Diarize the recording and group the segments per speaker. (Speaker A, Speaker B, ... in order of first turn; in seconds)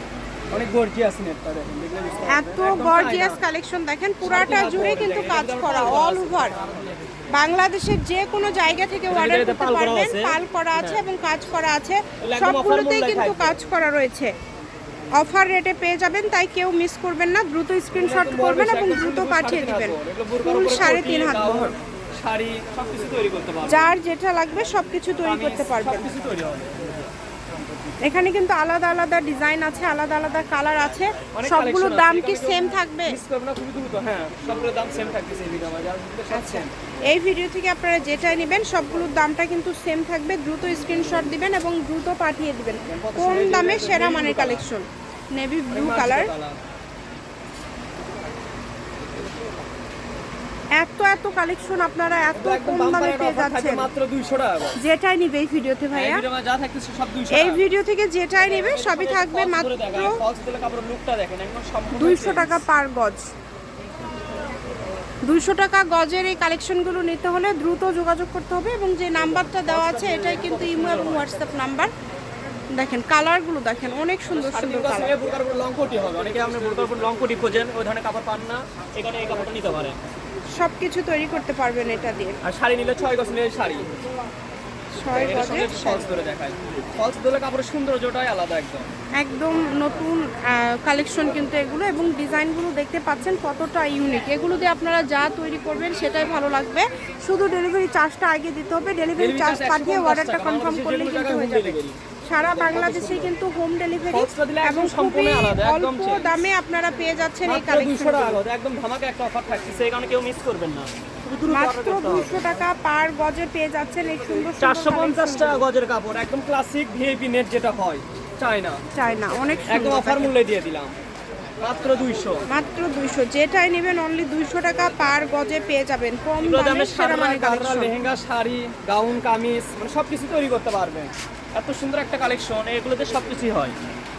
Speaker A: 0.5-3.4, 4.2-6.9, 9.1-11.0, 12.2-13.6, 17.9-23.9, 25.2-26.9, 31.3-36.7, 42.9-44.7, 45.7-46.6, 52.4-54.8, 55.9-57.7, 58.4-62.6, 69.2-71.4, 74.3-80.0, 82.4-83.9, 85.1-88.9, 99.2-103.3, 104.1-106.5, 107.4-112.5, 114.6-118.8, 119.7-120.9, 121.6-122.4, 126.4-133.7
Speaker B: 2.3-6.5, 7.3-14.3, 15.2-21.7, 23.6-26.1, 28.0-33.2, 36.3-46.3, 50.8-53.9, 54.8-56.2, 57.3-60.2, 62.0-63.2, 65.2-71.9, 72.7-75.1, 80.6-82.4, 85.0-86.1, 89.2-108.4, 111.5-115.6, 118.9-120.3, 122.5-127.9